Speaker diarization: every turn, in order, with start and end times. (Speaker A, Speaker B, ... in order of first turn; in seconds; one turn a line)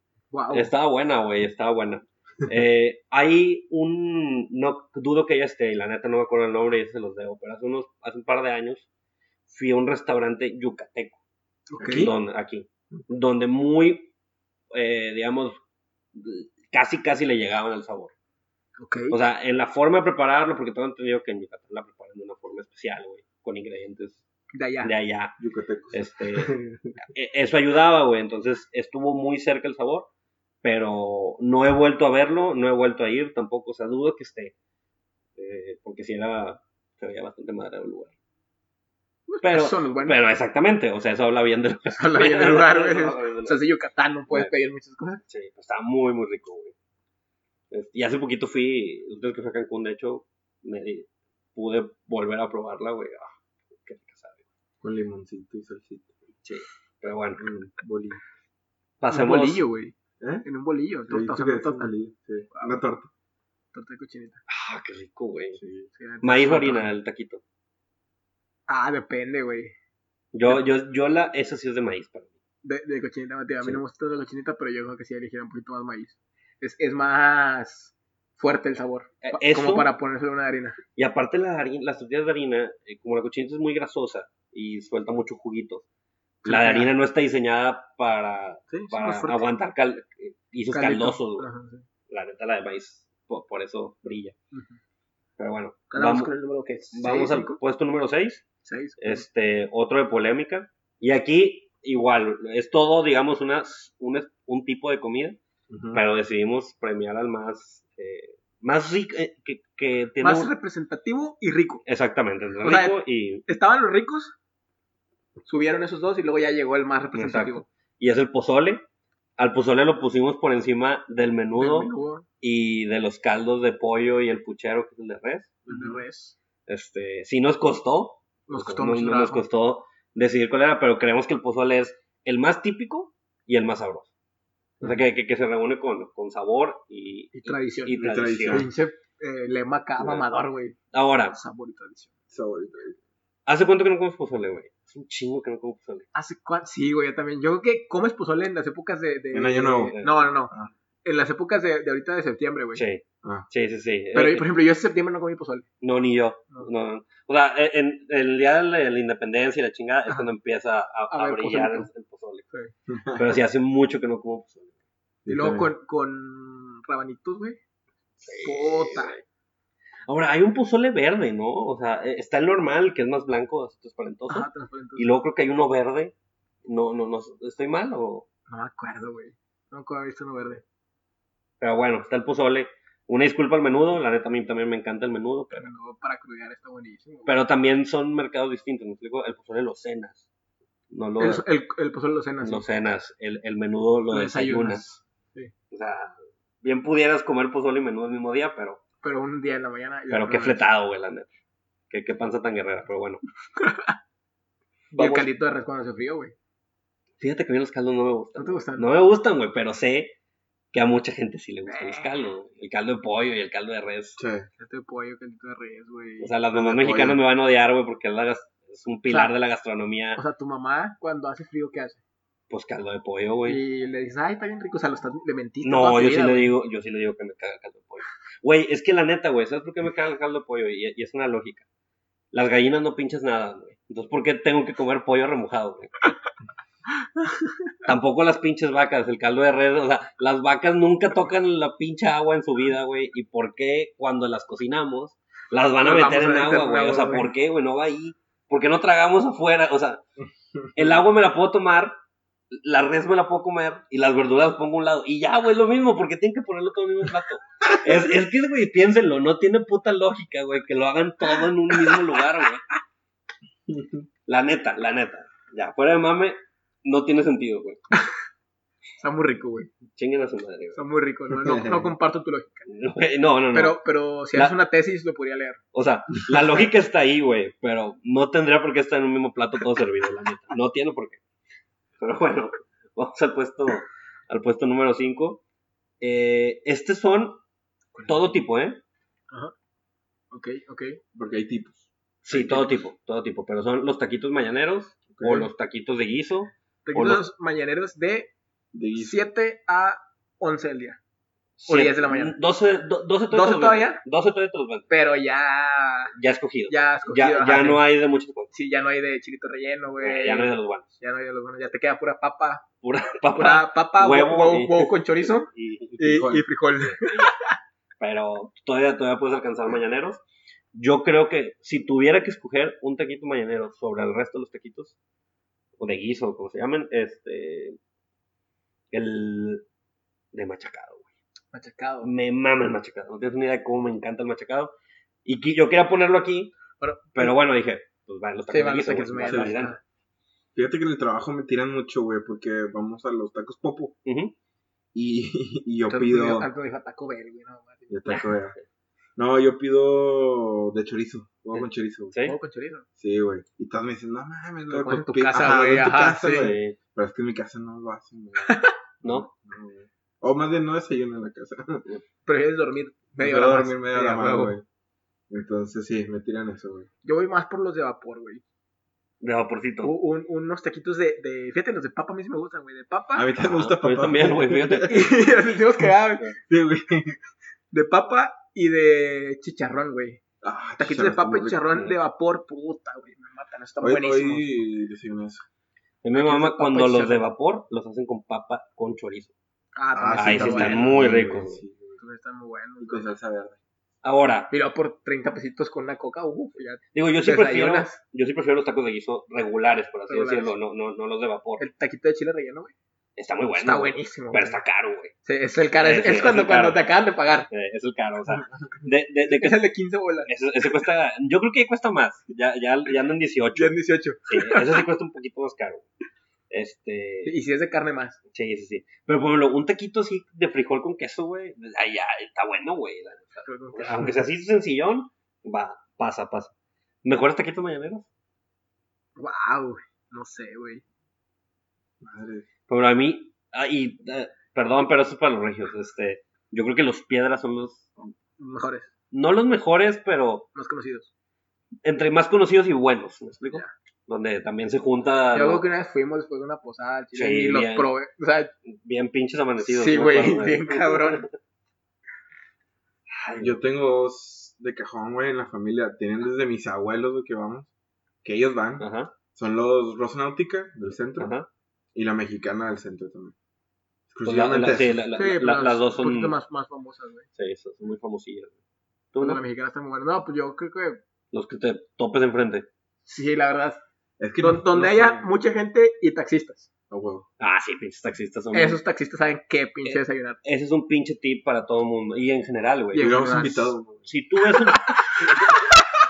Speaker A: 0.3-0.7
Speaker B: 0.5-8.8
Speaker B: 9.5-11.2
Speaker A: 11.7-12.1
Speaker C: 11.8-12.1
Speaker B: 11.8-14.1
Speaker B: 14.7-15.6
Speaker B: 16.1-18.1
Speaker A: 18.8-19.1
Speaker B: 19.1-24.2
Speaker A: 24.5-24.9
Speaker B: 24.8-25.4
Speaker C: 25.4-26.9
Speaker B: 25.9-26.5
Speaker B: 27.1-30.1
Speaker B: 30.6-34.5
Speaker B: 35.4-38.1
Speaker A: 39.3-40.2
Speaker B: 39.4-43.6
Speaker A: 42.0-45.2
Speaker B: 45.3-46.7
Speaker B: 47.7-54.4
Speaker C: 54.8-56.2
Speaker B: 56.4-57.5
Speaker C: 57.4-58.2
Speaker B: 59.0-59.6
Speaker A: 59.1-61.9
Speaker C: 60.2-60.5
Speaker C: 61.1-63.1
Speaker A: 62.5-62.8
Speaker A: 63.7-64.4
Speaker B: 64.5-65.6
Speaker C: 65.6-65.9
Speaker A: 66.0-66.9
Speaker B: 66.2-67.4
Speaker A: 68.7-69.7
Speaker B: 70.3-72.3
Speaker A: 72.6-80.8
Speaker B: 79.2-79.9
Speaker B: 81.0-85.8
Speaker A: 86.4-86.9
Speaker B: 86.4-91.5
Speaker A: 88.7-89.4
Speaker A: 90.7-91.8
Speaker B: 92.1-94.3
Speaker A: 94.5-94.8
Speaker B: 95.4-96.3
Speaker A: 95.9-97.6
Speaker B: 96.9-98.5
Speaker A: 98.6-99.2
Speaker B: 99.0-105.4
Speaker C: 105.7-106.0
Speaker B: 105.9-110.5
Speaker A: 110.2-111.8
Speaker B: 111.8-113.5
Speaker A: 112.6-114.3
Speaker A: 115.5-117.7
Speaker B: 117.1-118.8
Speaker B: 119.4-125.5
Speaker A: 121.6-122.2
Speaker C: 125.7-126.0
Speaker A: 125.7-126.3
Speaker B: 126.7-134.1
Speaker A: 128.5-129.4
Speaker B: 134.8-138.7
Speaker A: 137.3-140.8
Speaker C: 138.0-138.7
Speaker B: 140.0-140.3
Speaker B: 140.9-141.4
Speaker A: 141.3-142.1
Speaker C: 142.3-143.0
Speaker B: 143.5-146.1
Speaker A: 146.1-150.5
Speaker C: 149.3-150.0
Speaker B: 149.9-150.2
Speaker A: 151.0-152.8
Speaker B: 152.7-154.5
Speaker A: 154.1-155.7
Speaker B: 155.8-162.4
Speaker A: 161.1-161.9
Speaker C: 162.9-163.2
Speaker B: 163.1-164.7
Speaker C: 165.2-165.7
Speaker A: 165.3-167.6
Speaker B: 168.2-169.2
Speaker A: 168.4-169.1
Speaker B: 170.1-176.1
Speaker A: 174.3-175.1
Speaker B: 176.6-178.2
Speaker A: 178.5-180.6
Speaker B: 181.6-185.7
Speaker A: 185.5-187.3
Speaker B: 187.2-190.2
Speaker B: 190.9-191.4
Speaker A: 191.2-192.6
Speaker B: 192.4-194.8
Speaker A: 194.1-195.5
Speaker B: 195.7-198.8
Speaker A: 199.0-200.6
Speaker B: 200.1-201.3
Speaker B: 201.9-203.2
Speaker A: 203.6-203.9
Speaker B: 204.9-205.3
Speaker A: 204.9-206.3
Speaker B: 207.2-210.1
Speaker A: 208.4-208.9
Speaker B: 210.7-214.2
Speaker A: 211.7-212.1
Speaker C: 214.2-214.5
Speaker A: 214.6-216.3
Speaker B: 216.2-220.2
Speaker C: 216.5-217.2
Speaker A: 220.2-222.0
Speaker B: 222.5-223.6
Speaker A: 223.4-226.5
Speaker B: 225.6-231.6
Speaker B: 232.3-236.1
Speaker A: 237.2-237.6
Speaker B: 237.8-250.0
Speaker A: 245.8-247.3
Speaker B: 250.7-251.9
Speaker B: 252.5-262.7
Speaker C: 263.7-264.1
Speaker B: 264.3-267.8
Speaker A: 269.0-269.7
Speaker B: 269.9-270.8
Speaker A: 270.7-272.6
Speaker C: 271.4-271.9
Speaker B: 272.7-273.8
Speaker A: 273.5-275.6
Speaker B: 275.7-281.2
Speaker B: 282.0-285.4
Speaker B: 286.0-287.4
Speaker A: 287.9-288.3
Speaker B: 288.1-288.8
Speaker A: 290.3-291.0
Speaker C: 291.1-292.7
Speaker B: 292.2-297.2
Speaker C: 295.1-295.5
Speaker A: 296.9-298.3
Speaker C: 298.7-299.2
Speaker A: 298.9-301.0
Speaker B: 301.6-304.9
Speaker A: 301.7-302.4
Speaker A: 303.3-304.0
Speaker A: 304.9-306.1
Speaker B: 306.1-308.5
Speaker A: 306.7-307.8
Speaker A: 308.5-312.6
Speaker B: 310.0-310.9
Speaker B: 312.8-317.4
Speaker A: 313.4-317.5
Speaker C: 316.0-316.4
Speaker B: 318.0-320.2
Speaker B: 320.7-324.9
Speaker B: 325.8-327.8
Speaker B: 328.9-329.6
Speaker B: 330.3-331.1
Speaker A: 331.5-332.1
Speaker B: 332.0-334.7
Speaker B: 335.2-336.5
Speaker A: 336.8-337.3
Speaker B: 337.1-339.8
Speaker A: 338.5-339.8
Speaker C: 339.2-339.6
Speaker C: 340.5-343.9
Speaker B: 344.0-344.3
Speaker C: 344.9-346.5
Speaker A: 345.9-348.3
Speaker C: 347.9-348.6
Speaker C: 349.2-352.1
Speaker A: 352.2-352.9
Speaker C: 353.0-361.9
Speaker A: 354.7-356.5
Speaker B: 356.3-356.8
Speaker A: 358.4-358.7
Speaker B: 359.0-359.3
Speaker A: 362.2-364.6
Speaker C: 363.2-364.6
Speaker C: 365.3-366.9
Speaker A: 367.0-368.4
Speaker B: 369.2-369.9
Speaker A: 369.8-373.3
Speaker C: 373.1-375.0
Speaker B: 373.4-375.2
Speaker A: 374.9-376.3
Speaker C: 376.4-377.2
Speaker A: 377.7-380.2
Speaker C: 380.4-381.6
Speaker A: 380.8-384.5
Speaker C: 383.8-385.4
Speaker B: 386.0-389.3
Speaker A: 386.1-387.2
Speaker A: 389.8-391.0
Speaker C: 389.9-392.0
Speaker B: 390.1-391.6
Speaker A: 392.0-393.1
Speaker C: 392.8-393.6
Speaker B: 394.0-394.5
Speaker A: 394.5-398.0
Speaker B: 396.9-401.6
Speaker A: 400.1-400.5
Speaker A: 401.6-402.7
Speaker B: 403.2-405.1
Speaker A: 403.6-404.6
Speaker A: 405.2-407.5
Speaker B: 405.8-406.9
Speaker B: 407.5-409.6
Speaker A: 409.3-410.3
Speaker B: 410.2-415.9
Speaker A: 413.6-414.8
Speaker B: 416.5-417.4
Speaker A: 417.2-418.2
Speaker B: 418.3-426.5
Speaker A: 423.4-424.1
Speaker B: 427.0-428.1
Speaker A: 429.2-430.8
Speaker C: 432.0-432.5
Speaker B: 432.7-437.9
Speaker A: 438.4-438.9
Speaker B: 439.1-440.5
Speaker A: 440.5-441.1
Speaker B: 441.8-445.6
Speaker A: 445.3-448.5
Speaker B: 447.1-447.9
Speaker B: 448.7-451.3
Speaker A: 449.6-451.2
Speaker B: 453.1-453.6
Speaker C: 453.4-457.7
Speaker C: 458.2-461.3
Speaker B: 458.8-459.1
Speaker B: 461.2-461.5
Speaker C: 461.9-463.3
Speaker C: 464.1-465.1
Speaker B: 464.2-466.4
Speaker A: 465.1-467.3
Speaker B: 467.4-468.5
Speaker B: 469.1-469.4
Speaker A: 469.2-471.0
Speaker B: 471.3-472.7
Speaker A: 473.0-473.8
Speaker C: 474.2-475.3
Speaker A: 474.4-476.7
Speaker C: 476.9-477.2
Speaker B: 477.4-478.8
Speaker A: 478.5-480.4
Speaker B: 479.8-483.3
Speaker A: 482.9-483.8
Speaker C: 482.9-484.1
Speaker B: 484.1-485.6